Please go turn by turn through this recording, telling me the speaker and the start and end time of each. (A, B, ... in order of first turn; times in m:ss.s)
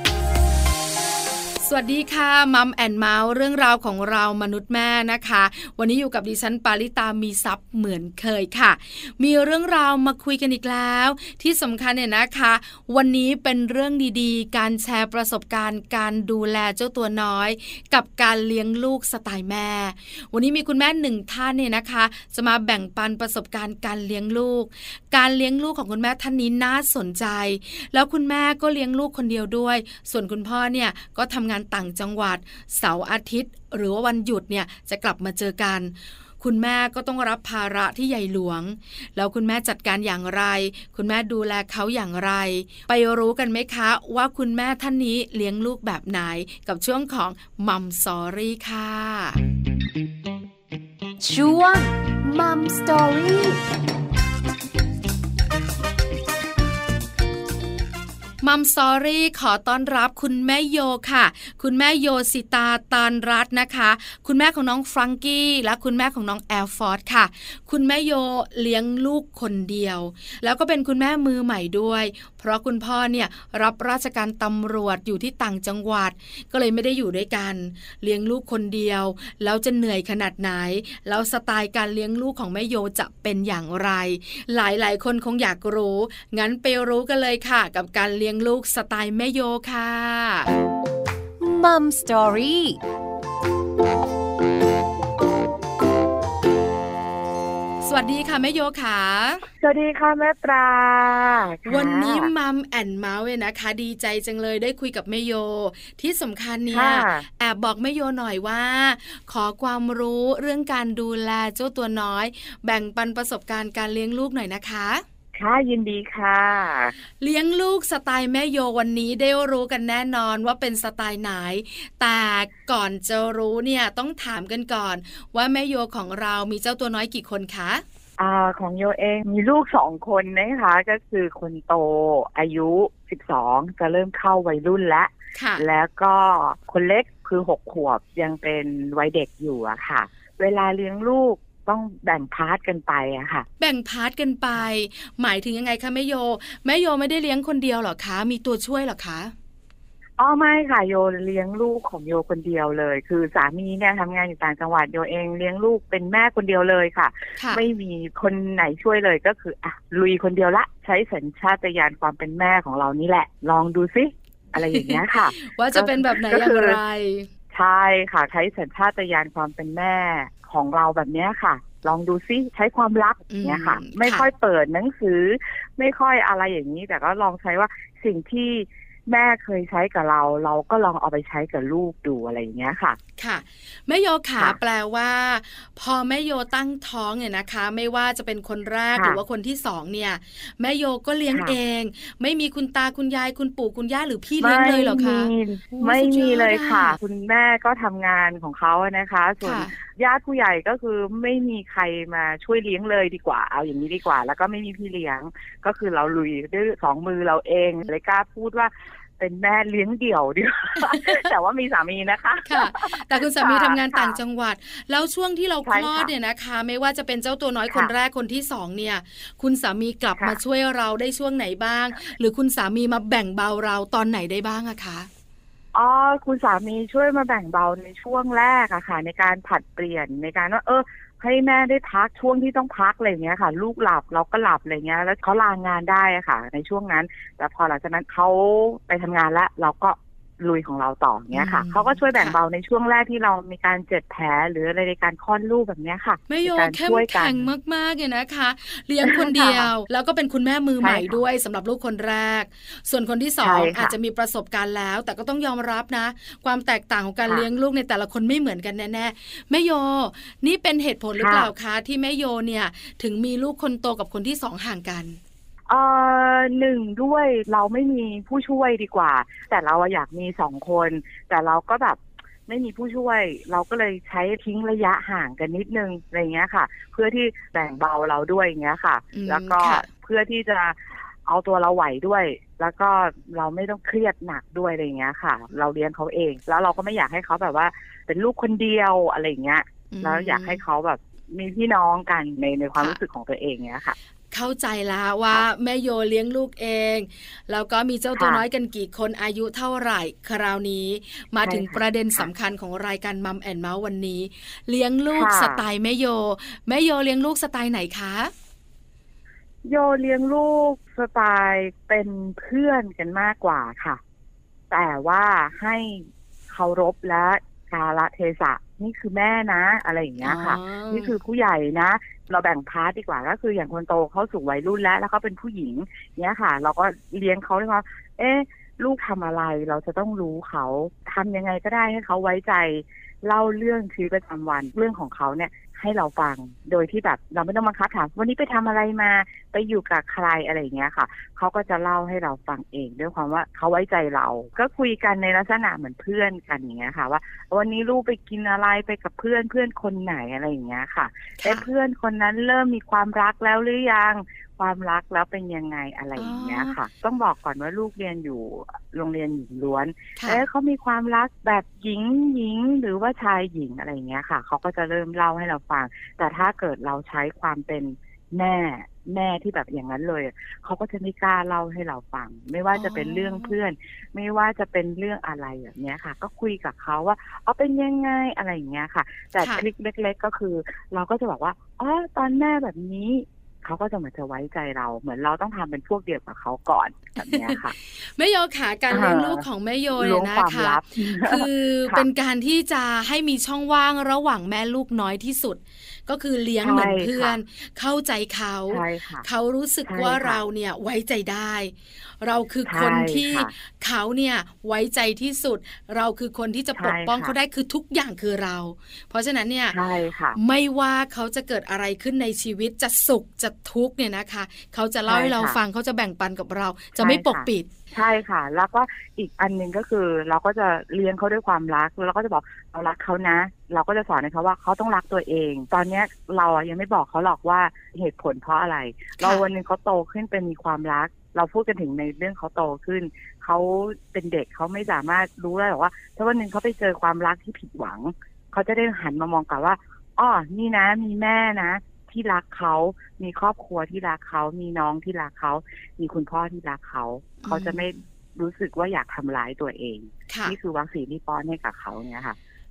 0:01.6-0:49.4 A
0:51.2-0:53.6 B
0:58.4-1:30.5 A
1:31.4-1:32.8 B
1:37.8-1:39.4 A
1:39.6-1:42.3 C
1:41.7-1:55.0 A
1:46.7-1:47.3 C
1:55.4-1:56.9 C
1:57.2-2:07.8 A
2:08.2-2:23.5 C
2:15.4-2:15.7 A
2:23.6-2:29.3 A
2:30.2-2:46.8 C
2:37.4-2:37.6 A
2:44.6-2:47.3 A
2:47.5-3:03.0 C
2:53.3-2:54.3 A
3:03.2-3:17.0 A
3:09.0-3:09.2 C
3:14.4-3:34.2 C
3:19.4-3:19.8 A
3:30.8-3:31.3 A
3:32.4-3:45.1 A
3:35.6-3:36.1 C
3:45.7-4:07.5 C
4:01.3-4:02.4 A
4:06.3-4:25.2 A
4:09.0-4:09.7 C
4:10.8-4:11.2 C
4:13.4-4:14.0 C
4:21.2-4:21.5 C
4:25.7-4:54.0 C
4:39.1-4:39.9 A
4:49.9-4:50.6 A
4:54.3-5:08.3 A
4:58.2-4:58.4 C
5:01.4-5:02.3 C
5:05.1-5:05.6 C
5:09.6-5:14.0 C
5:14.7-6:27.8 C
5:20.2-5:21.2 A
5:51.4-5:51.7 A
5:56.2-5:56.8 A
6:00.2-6:00.4 A
6:12.7-6:13.6 A
6:19.4-6:19.7 A
6:27.2-6:49.8 A
6:28.9-6:32.1 C
6:36.6-6:37.4 C
6:38.7-6:39.3 C
6:39.9-6:40.4 C
6:42.7-6:43.5 C
6:46.8-6:47.4 C
6:49.7-6:50.4 C
6:50.4-6:57.7 A
6:55.1-6:55.6 C
6:57.0-7:32.4 C
7:09.2-7:09.5 A
7:27.4-7:28.0 A
7:30.3-7:30.6 A